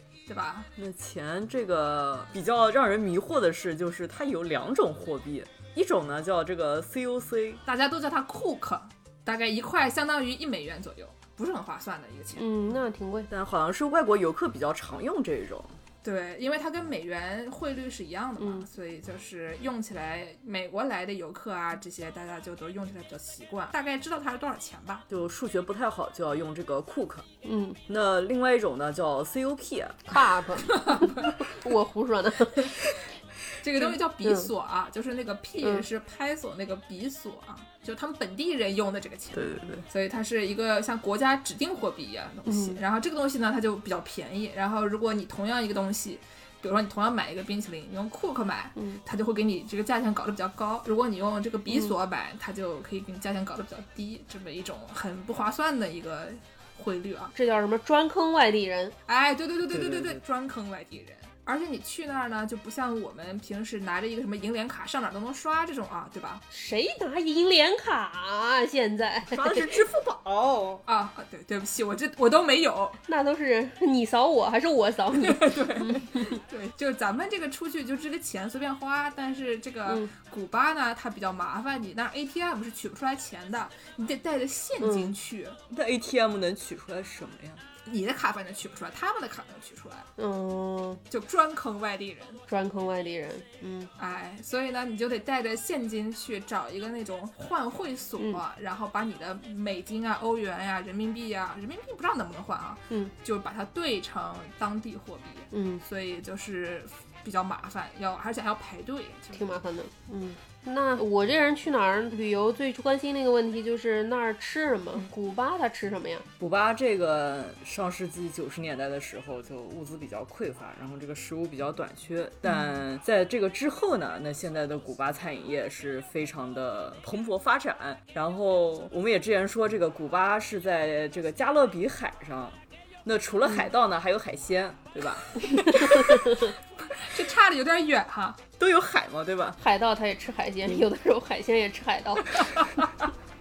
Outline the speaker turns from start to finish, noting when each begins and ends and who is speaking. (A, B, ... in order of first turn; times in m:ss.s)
0:00.3-0:00.7 A
0:00.8-0:07.6 B
0:07.6-0:12.5 A
0:12.4-0:13.3 C
0:13.3-0:15.8 B
0:16.0-0:25.0 A
0:18.4-0:18.6 C
0:25.1-0:27.2 B
0:27.4-0:27.8 C
0:27.9-0:30.3 B
0:30.1-0:32.7 C
0:30.7-0:31.3 A
0:33.6-0:57.3 A
0:33.8-0:34.5 C
0:39.3-0:39.8 B
0:42.5-0:42.8 C
0:57.3-0:58.9 C
0:59.1-1:06.4 A
0:59.7-1:00.2 B
1:06.5-1:09.8 C
1:09.3-1:10.8 B
1:10.8-1:13.0 A
1:13.1-1:16.4 C
1:15.1-1:25.6 A
1:24.8-1:25.1 C
1:25.7-1:27.6 B
1:27.8-1:30.1 A
1:30.2-1:31.0 C
1:31.1-1:32.4 A
1:32.5-1:33.9 C
1:34.0-1:49.5 A
1:45.5-1:45.8 C
1:49.3-1:56.2 C
1:56.4-2:16.0 B
2:15.6-2:16.4 C
2:16.8-2:18.4 A
2:18.6-2:19.6 B
2:19.6-2:22.5 C